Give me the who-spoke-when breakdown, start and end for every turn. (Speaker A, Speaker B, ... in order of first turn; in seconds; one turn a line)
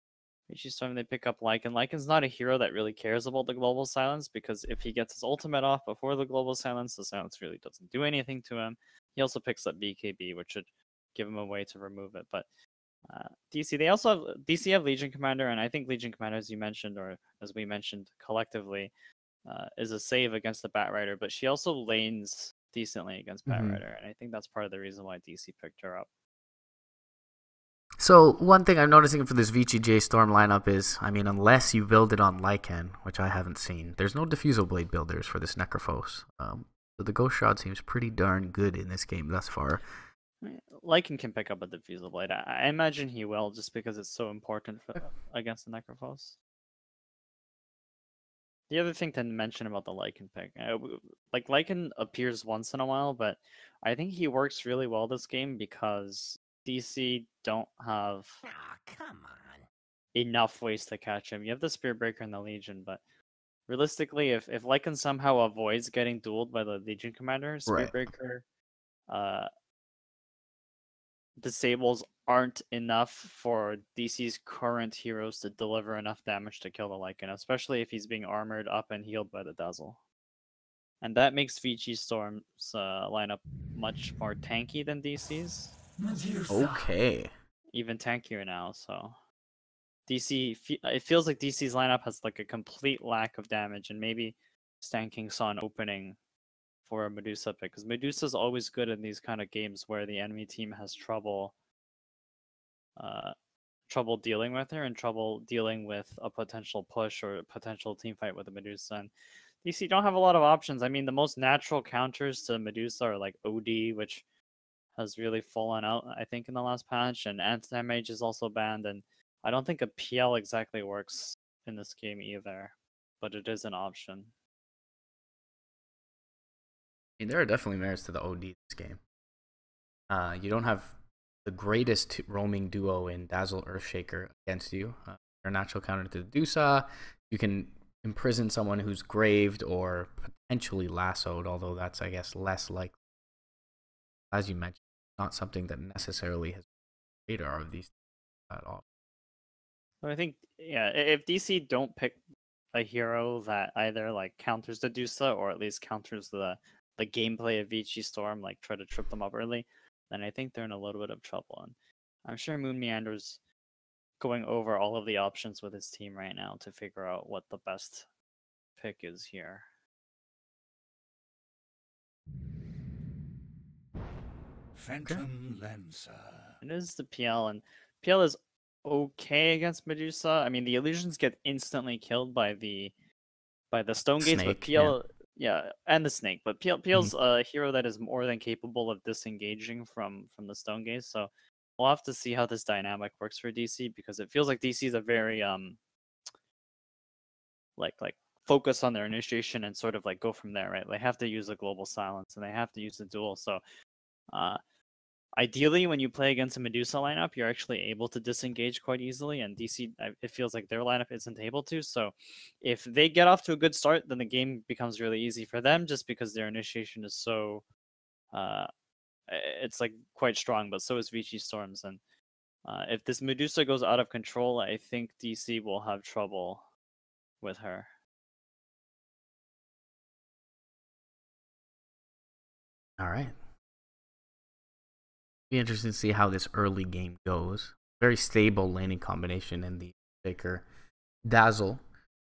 Speaker A: 0.5-12.5
Speaker A: 13.1-18.9
Speaker A: 19.4-26.1
Speaker B: 23.5-23.8
Speaker B: 28.0-39.8
Speaker A: 40.4-46.4
Speaker A: 48.7-58.4
Speaker A: 60.1-63.0
Speaker A: 63.7-68.5
Speaker B: 67.7-68.0
Speaker A: 69.1-69.5
Speaker A: 71.4-80.0
Speaker A: 81.0-85.7
Speaker C: 86.0-86.9
Speaker B: 86.5-87.3
Speaker A: 87.7-89.2
Speaker A: 90.1-96.2
Speaker A: 96.9-101.5
Speaker A: 103.0-103.3
Speaker A: 103.9-109.1
Speaker A: 109.6-114.2
Speaker A: 115.0-124.3
Speaker B: 127.2-129.0
Speaker B: 130.1-142.9
Speaker B: 144.3-146.7
Speaker B: 147.3-147.9
Speaker B: 148.5-148.8
Speaker A: 150.0-152.2
Speaker A: 152.7-163.4
Speaker A: 164.2-168.1
Speaker A: 168.8-169.7
Speaker C: 174.8-176.6
Speaker A: 176.6-182.9
Speaker A: 183.7-195.8
Speaker B: 184.2-184.9
Speaker A: 197.8-203.6
Speaker A: 204.3-204.6
Speaker A: 205.4-217.6
Speaker A: 218.3-218.7
Speaker A: 219.3-222.0
Speaker A: 222.7-226.6
Speaker A: 227.4-227.9
Speaker B: 233.0-233.3
Speaker B: 235.5-240.7
Speaker B: 241.2-241.8